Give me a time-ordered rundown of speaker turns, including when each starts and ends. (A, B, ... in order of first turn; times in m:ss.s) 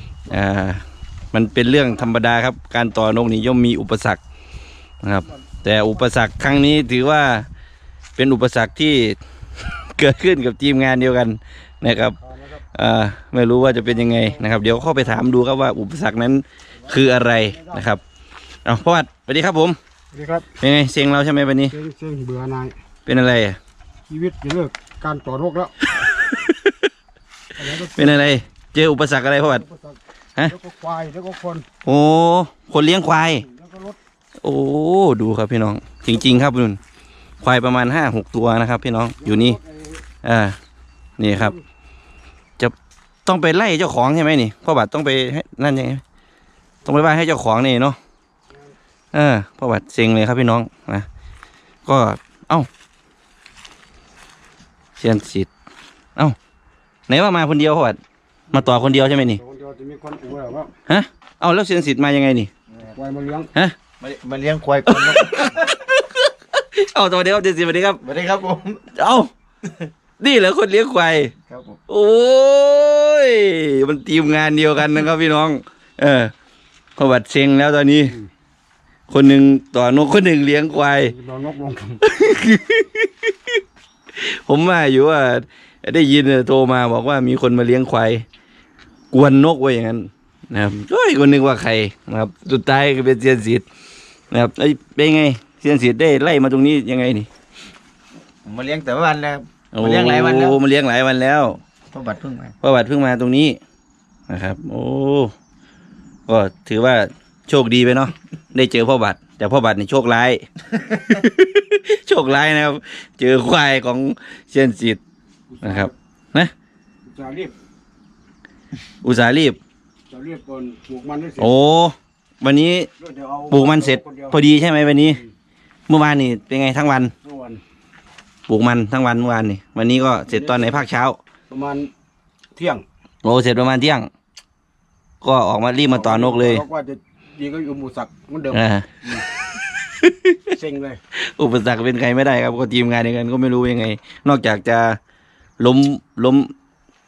0:00.3-0:04.2 A
0:05.0-0:07.5 A
0:05.2-0:06.0 B
0:08.2-0:12.2 A
0:12.1-0:12.6 B
0:12.7-0:18.0 A
0:13.7-0:15.3 B
0:16.8-0:17.9 B
0:18.6-0:19.8 A
0:20.1-0:20.5 B
0:20.6-0:21.7 A
0:21.7-0:22.7 B
0:23.0-0:23.6 A
0:24.1-0:25.8 B
0:26.0-0:26.9 A
0:27.5-0:28.3 B
0:27.9-0:29.6 A
0:29.4-0:31.6 B
0:31.8-0:33.4 A
0:33.4-0:34.0 B
0:34.4-0:36.8 A
0:37.4-0:39.6 A
0:39.2-0:40.0 B
0:40.2-0:40.6 A
0:41.2-0:41.5 A
0:41.3-0:41.6 B
0:43.2-0:46.0 A
0:46.8-0:48.0 A
0:49.1-0:51.1 A
0:51.8-0:52.7 A
0:55.0-0:55.5 A
0:57.1-0:58.0 A
0:58.5-1:00.7 B
0:58.5-0:59.4 A
1:00.9-1:02.5 A
1:02.9-1:03.5 B
1:04.0-1:05.6 C
1:04.9-1:08.0 A
1:08.0-1:08.9 C
1:08.9-1:09.3 A
1:10.2-1:11.3 A
1:11.4-1:11.8 C
1:11.9-1:16.3 A
1:17.0-1:18.1 A
1:19.1-1:21.1 A
1:21.0-1:22.0 B
1:22.0-1:23.6 A
1:24.1-1:28.2 A
1:29.1-1:33.6 A
1:34.3-1:37.3 A
1:38.4-1:40.6 C
1:39.7-1:41.6 A
1:41.9-1:42.5 C
1:42.6-1:43.6 A
1:44.3-1:45.3 A
1:46.3-1:55.0 A
1:55.5-1:55.9 B
1:55.6-1:56.5 A
1:57.0-1:57.5 B
1:59.0-1:59.6 A
2:00.1-2:01.6 B
2:01.4-2:02.9 A
2:03.0-2:04.4 B
2:03.5-2:05.2 A
2:05.0-2:05.3 B
2:05.9-2:07.1 A
2:07.2-2:07.6 B
2:08.5-2:11.2 A
2:10.3-2:10.8 B
2:11.5-2:11.9 B
2:12.5-2:12.8 B
2:13.2-2:14.1 A
2:15.2-2:16.6 A
2:15.9-2:19.2 B
2:18.5-2:19.0 A
2:19.9-2:20.4 A
2:20.5-2:21.0 B
2:21.1-2:25.0 A
2:25.6-2:26.5 A